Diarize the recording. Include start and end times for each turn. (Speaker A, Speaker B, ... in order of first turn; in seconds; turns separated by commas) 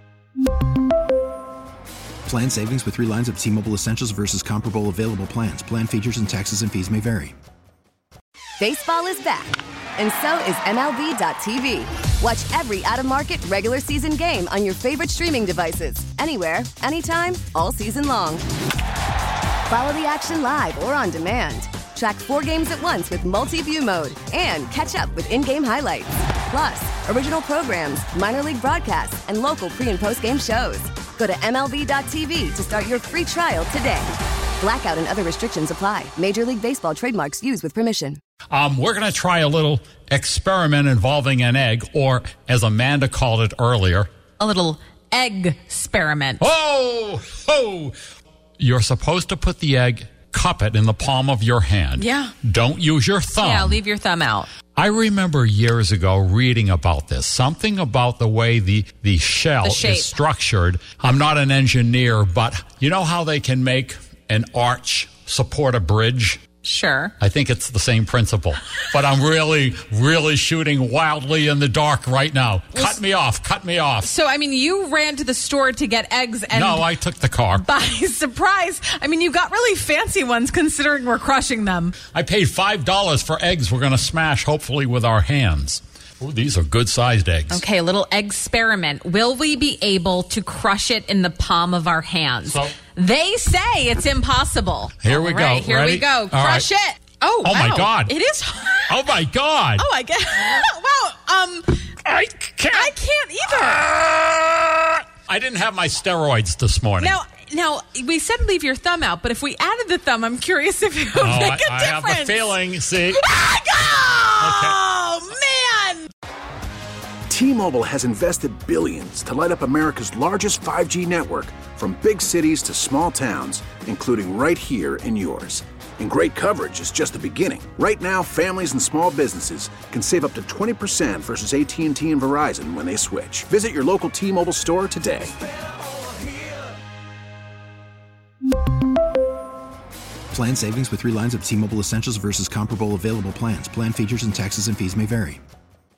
Speaker A: 2.3-7.3, Speaker B: 8.6-18.4, Speaker B: 19.7-38.2, Speaker C: 38.5-44.1, Speaker D: 44.4-46.5, Speaker C: 46.4-48.0, Speaker C: 48.6-53.8, Speaker D: 52.0-52.4, Speaker D: 53.4-54.5, Speaker C: 54.8-66.4, Speaker D: 59.6-60.2, Speaker D: 66.6-67.2, Speaker C: 67.2-74.1, Speaker D: 72.8-73.0, Speaker D: 74.0-76.9, Speaker C: 76.5-77.6, Speaker D: 77.5-82.0, Speaker C: 82.1-87.6, Speaker D: 87.5-99.1, Speaker C: 92.5-92.7, Speaker C: 95.0-96.7, Speaker C: 97.4-98.1, Speaker C: 98.9-99.9, Speaker D: 99.8-102.0, Speaker C: 102.0-102.9, Speaker D: 102.7-103.9, Speaker C: 103.5-107.2, Speaker D: 107.0-112.6, Speaker C: 111.2-113.3, Speaker D: 113.1-116.1, Speaker C: 114.4-114.8, Speaker E: 117.3-135.3, Speaker A: 140.3-145.4